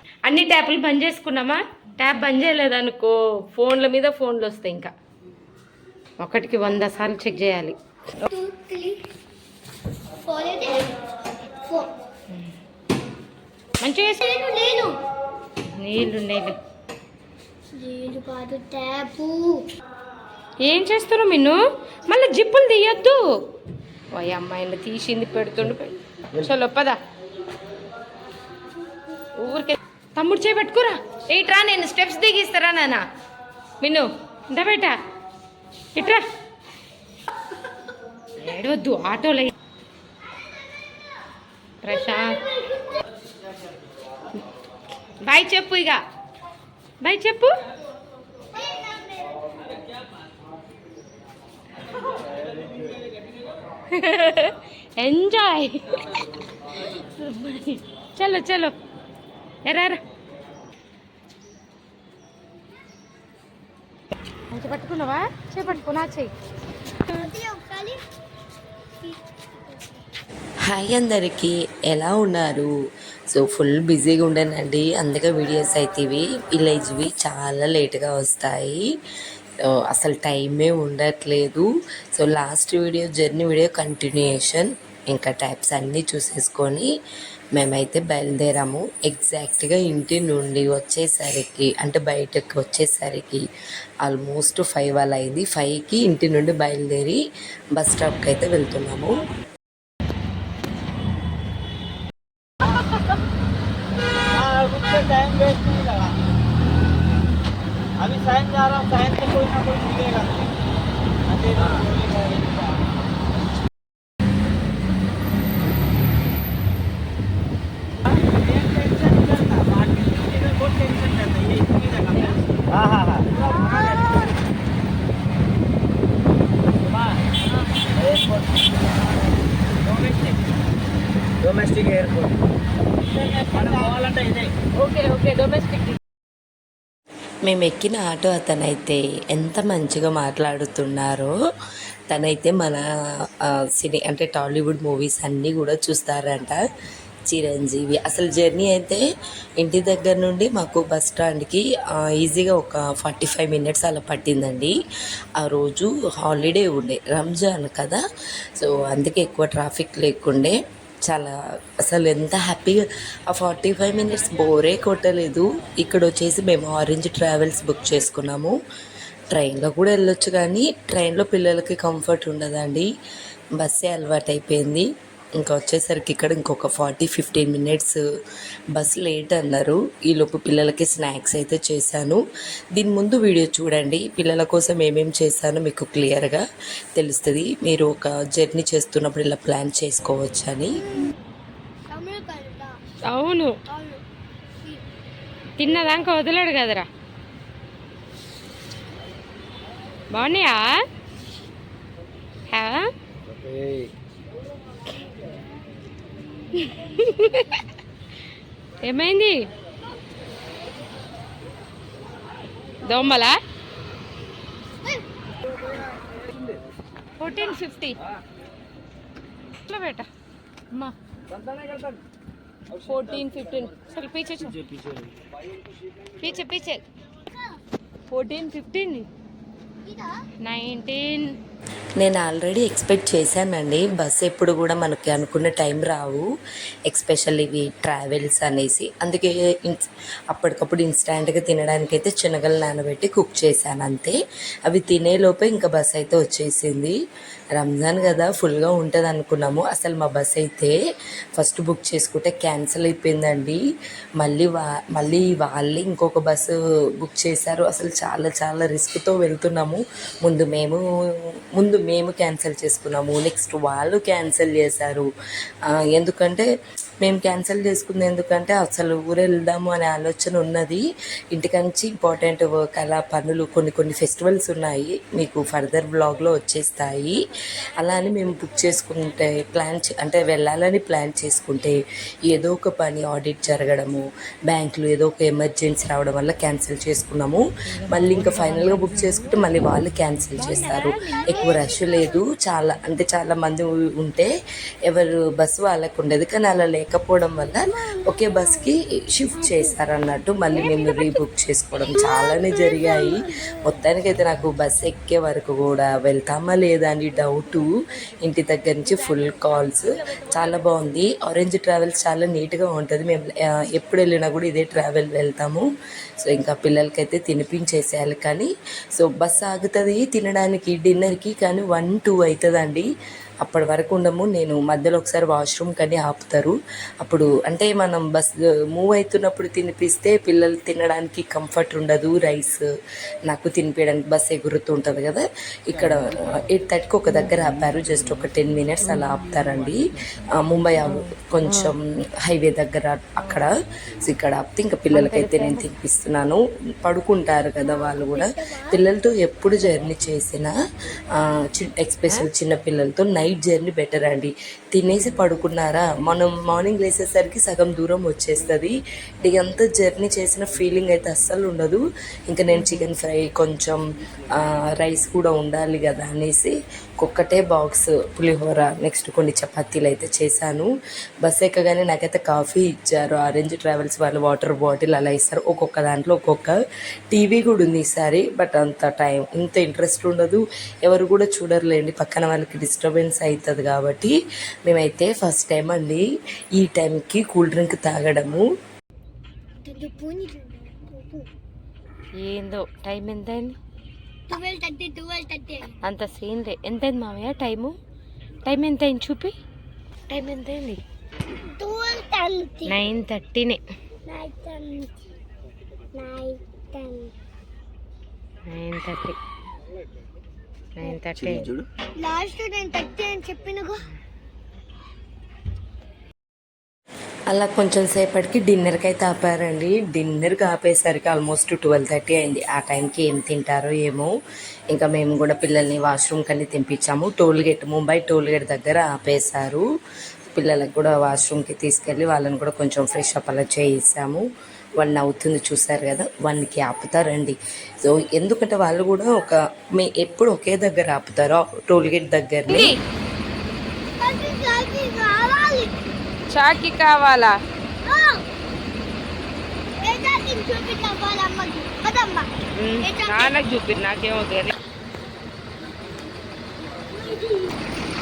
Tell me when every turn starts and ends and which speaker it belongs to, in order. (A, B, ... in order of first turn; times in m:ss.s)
0:00.2-0:04.9 A
0:06.2-0:07.8 A
0:08.3-0:09.1 B
0:10.2-0:11.0 B
0:11.6-0:11.9 B
0:13.8-0:14.3 A
0:14.2-0:15.0 B
0:15.8-0:16.6 A
0:17.8-0:19.7 B
0:20.6-0:23.2 A
0:24.1-0:27.0 A
0:29.4-0:33.0 A
0:33.8-0:35.0 A
0:36.0-0:36.2 A
0:38.4-0:39.5 A
0:41.8-0:42.4 A
0:45.2-0:46.0 A
0:47.0-0:47.5 A
0:48.5-0:49.5 B
0:53.9-0:55.8 A
0:56.8-0:58.7 A
0:59.7-1:00.0 A
1:04.5-1:06.3 A
1:06.9-1:07.3 A
1:07.1-1:08.0 B
1:09.0-1:10.0 B
1:10.6-1:12.7 C
1:13.3-1:18.9 C
1:19.6-1:26.9 C
1:27.5-1:33.4 C
1:34.0-1:37.2 C
1:37.8-1:39.2 C
1:44.3-1:46.1 D
1:48.0-1:50.5 D
1:51.3-1:52.7 D
1:58.3-2:04.1 D
2:08.0-2:08.9 D
2:09.9-2:10.4 D
2:11.4-2:12.3 D
2:13.1-2:14.5 D
2:14.8-2:16.0 A
2:17.4-2:21.3 C
2:22.1-2:22.8 C
2:23.4-2:26.6 C
2:27.3-2:29.0 C
2:29.6-2:34.8 C
2:35.4-2:38.0 C
2:38.6-2:48.6 C
2:49.3-2:52.9 C
2:53.6-2:58.0 C
2:58.7-3:02.2 C
3:02.8-3:06.4 C
3:07.0-3:10.8 C
3:10.8-3:11.2 B
3:11.9-3:12.8 B
3:13.1-3:13.6 A
3:13.7-3:14.0 B
3:15.6-3:16.9 A
3:20.1-3:20.7 A
3:22.5-3:22.9 A
3:26.6-3:27.6 A
3:28.8-3:29.4 A
3:32.8-3:33.4 A
3:37.2-3:38.0 A
3:39.6-3:40.1 A
3:42.8-3:44.6 A
3:46.2-3:46.8 A
3:48.1-3:49.1 A
3:49.8-3:50.1 B
3:50.4-3:51.2 A
3:52.0-3:56.3 C
3:56.9-4:07.0 C
4:07.6-4:10.8 C
4:11.4-4:13.6 C
4:14.2-4:20.8 C
4:21.6-4:25.1 C
4:25.7-4:26.5 C
4:27.0-4:37.2 C
4:37.8-4:54.3 C
4:47.8-4:49.3 A
4:50.4-4:51.7 A
4:51.3-4:52.2 B
4:54.9-5:15.7 C
4:57.7-4:58.7 B
4:59.4-4:59.8 B
5:00.5-5:01.2 A
5:01.9-5:03.8 B
5:08.8-5:10.5 A
5:16.2-5:22.9 C
5:23.4-5:32.6 C
5:33.3-5:50.6 C
5:44.9-5:45.7 A
5:47.7-5:48.8 B
5:51.2-6:03.8 C
6:02.5-6:02.9 A
6:04.3-6:10.7 C
6:11.2-6:16.6 C
6:17.1-6:24.1 C
6:24.7-6:26.0 C
6:26.6-6:28.5 C
6:29.6-6:31.3 B
6:32.2-6:33.6 A
6:34.3-6:35.7 B
6:35.8-6:37.8 A
6:38.4-6:39.3 A
6:40.1-6:40.8 A
6:41.5-6:42.8 B
6:42.7-6:43.6 A
6:44.1-6:44.9 B
6:46.0-6:47.1 B
6:48.5-6:49.2 A
6:50.8-6:51.5 A
6:52.0-6:53.8 B
6:57.3-7:04.1 C
7:04.7-7:09.6 C
7:10.3-7:14.2 C
7:14.8-7:22.7 C
7:22.5-7:22.8 A
7:24.0-7:25.7 B
7:26.3-7:27.4 A
7:27.9-7:28.2 B
7:29.8-7:32.3 B
7:32.6-7:34.5 A
7:32.8-7:33.4 B
7:36.8-7:37.6 B